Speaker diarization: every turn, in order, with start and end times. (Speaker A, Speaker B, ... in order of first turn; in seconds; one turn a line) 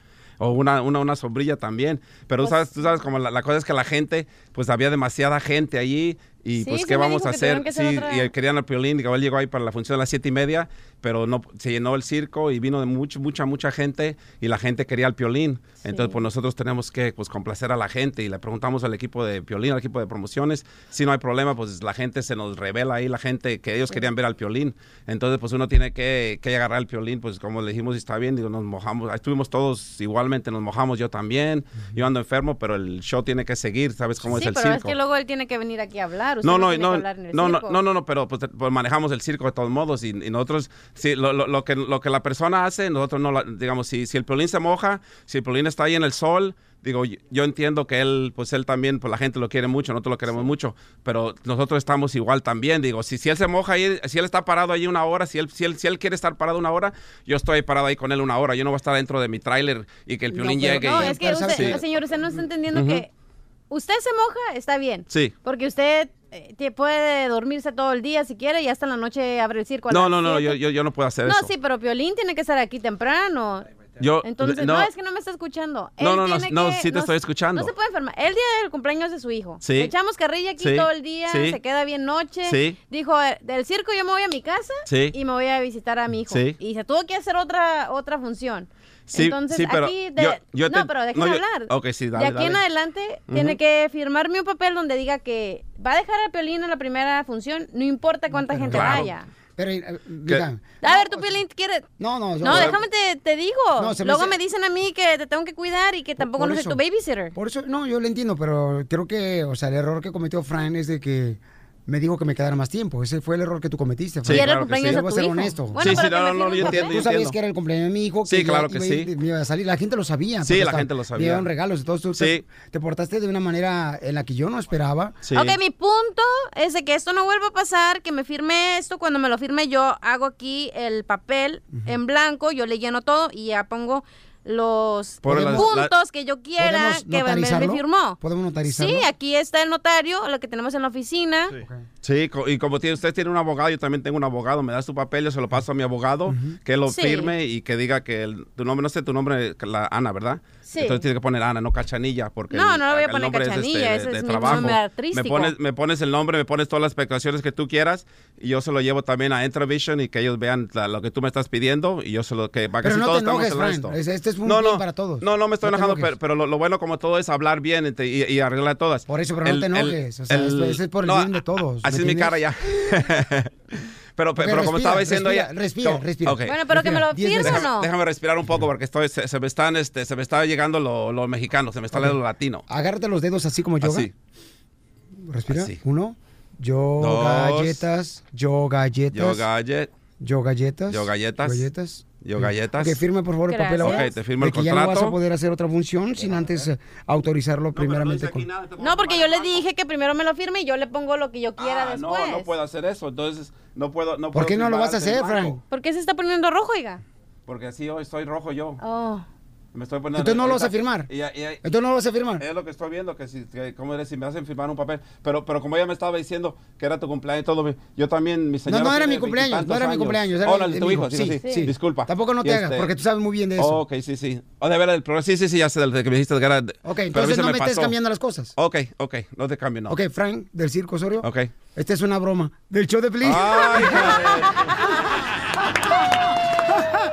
Speaker A: 0.4-35.0
Speaker B: 2.4-3.0
Speaker B: 6.5-8.3
Speaker B: 15.8-16.2
Speaker B: 34.2-37.8
Speaker A: 36.4-61.8
Speaker C: 60.3-61.8
Speaker B: 60.5-63.1
Speaker A: 62.7-63.0
Speaker B: 63.7-70.6
Speaker A: 65.1-65.3
Speaker A: 69.9-71.5
Speaker B: 71.2-73.7
Speaker A: 74.0-74.9
Speaker B: 74.2-99.3
Speaker A: 76.0-77.7
Speaker A: 79.6-79.9
Speaker A: 80.6-81.6
Speaker A: 82.5-82.8
Speaker A: 84.9-85.2
Speaker A: 86.2-86.6
Speaker A: 89.1-92.6
Speaker A: 93.3-93.6
Speaker C: 98.3-101.3
Speaker A: 98.7-99.1
Speaker B: 100.8-101.9
Speaker C: 102.0-102.8
Speaker B: 102.4-107.3
Speaker A: 102.5-102.8
Speaker C: 103.8-104.4
Speaker C: 106.2-106.8
Speaker C: 107.3-116.0
Speaker A: 114.2-115.1
Speaker B: 114.3-117.1
Speaker A: 115.8-117.4
Speaker C: 116.6-125.2
Speaker A: 118.3-119.1
Speaker A: 120.4-121.5
Speaker A: 122.2-122.5
Speaker A: 125.2-125.6
Speaker B: 125.3-141.5
Speaker A: 135.2-135.9
Speaker C: 135.3-135.7
Speaker C: 136.6-139.1
Speaker C: 141.6-141.9
Speaker A: 142.0-171.3
Speaker C: 146.3-146.6
Speaker B: 146.9-147.3
Speaker B: 150.7-151.1
Speaker B: 152.5-155.6
Speaker C: 162.8-166.1
Speaker C: 169.1-172.4
Speaker A: 171.8-173.5
Speaker A: 174.2-176.6
Speaker C: 174.4-177.7
Speaker B: 176.4-177.9
Speaker A: 177.4-182.6
Speaker C: 182.7-184.1
Speaker A: 183.8-184.1
Speaker C: 185.2-189.4
Speaker A: 185.5-185.8
Speaker A: 187.0-187.8
Speaker A: 189.1-189.9
Speaker C: 190.2-198.5
Speaker A: 190.9-191.7
Speaker A: 192.2-193.0
Speaker B: 193.5-194.1
Speaker A: 193.8-195.2
Speaker A: 197.7-199.6
Speaker B: 198.8-202.5
Speaker A: 201.6-205.6
Speaker C: 204.3-205.6
Speaker B: 205.7-207.0
Speaker A: 207.5-208.8
Speaker B: 208.8-209.2
Speaker A: 209.7-211.6
Speaker C: 210.1-211.1
Speaker C: 211.6-212.4
Speaker A: 212.4-222.9
Speaker C: 218.7-223.8
Speaker B: 221.4-221.7
Speaker A: 223.6-227.9
Speaker C: 226.8-228.5
Speaker A: 228.6-229.9
Speaker C: 229.9-234.4
Speaker A: 231.2-231.5
Speaker A: 233.2-234.5